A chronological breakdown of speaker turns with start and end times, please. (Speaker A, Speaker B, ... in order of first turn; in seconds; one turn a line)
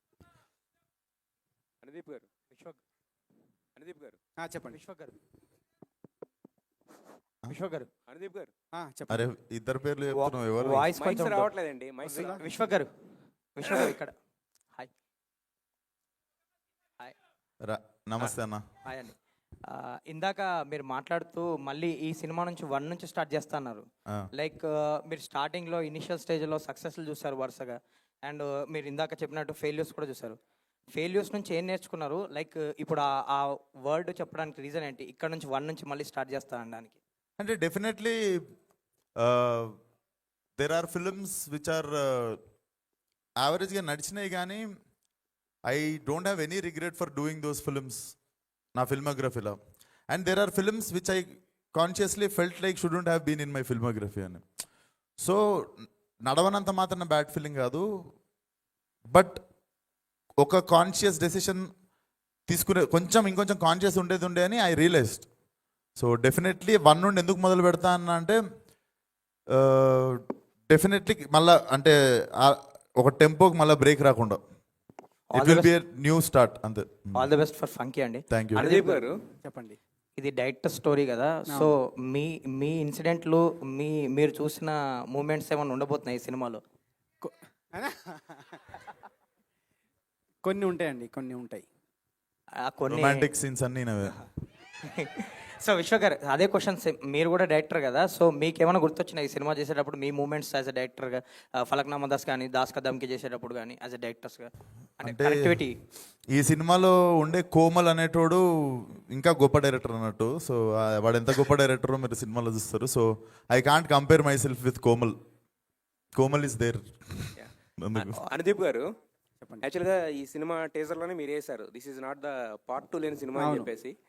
Speaker A: 1.8-2.3
Speaker A: 3.8-4.2
Speaker B: 4.4-4.8
Speaker C: 4.7-5.1
Speaker C: 7.5-7.9
Speaker A: 8.1-8.5
Speaker B: 8.8-9.3
Speaker D: 9.1-10.9
Speaker C: 10.1-11.5
Speaker A: 10.6-12.7
Speaker B: 12.0-12.4
Speaker C: 12.4-12.9
Speaker C: 13.6-14.1
Speaker A: 13.6-14.0
Speaker D: 17.6-18.6
Speaker C: 18.2-19.1
Speaker C: 19.7-23.9
Speaker C: 24.4-30.4
Speaker C: 30.9-37.0
Speaker D: 37.4-38.2
Speaker D: 39.2-39.7
Speaker D: 40.6-42.4
Speaker D: 43.4-44.6
Speaker D: 45.7-48.1
Speaker D: 48.7-49.6
Speaker D: 50.1-54.4
Speaker D: 55.2-57.8
Speaker D: 59.1-59.4
Speaker D: 60.4-61.6
Speaker D: 62.5-65.3
Speaker D: 66.0-68.4
Speaker D: 69.5-70.2
Speaker D: 70.7-74.4
Speaker C: 75.3-75.7
Speaker D: 75.3-77.3
Speaker C: 77.1-79.0
Speaker D: 78.3-78.6
Speaker A: 78.6-79.2
Speaker B: 79.4-79.8
Speaker C: 80.2-86.6
Speaker B: 87.2-88.6
Speaker B: 90.4-91.7
Speaker C: 92.7-93.3
Speaker D: 92.9-94.2
Speaker C: 94.9-105.7
Speaker D: 105.0-105.6
Speaker D: 106.3-115.2
Speaker D: 116.1-118.2
Speaker A: 117.4-118.8
Speaker B: 119.4-119.7
Speaker A: 119.6-123.9
Speaker B: 123.3-123.7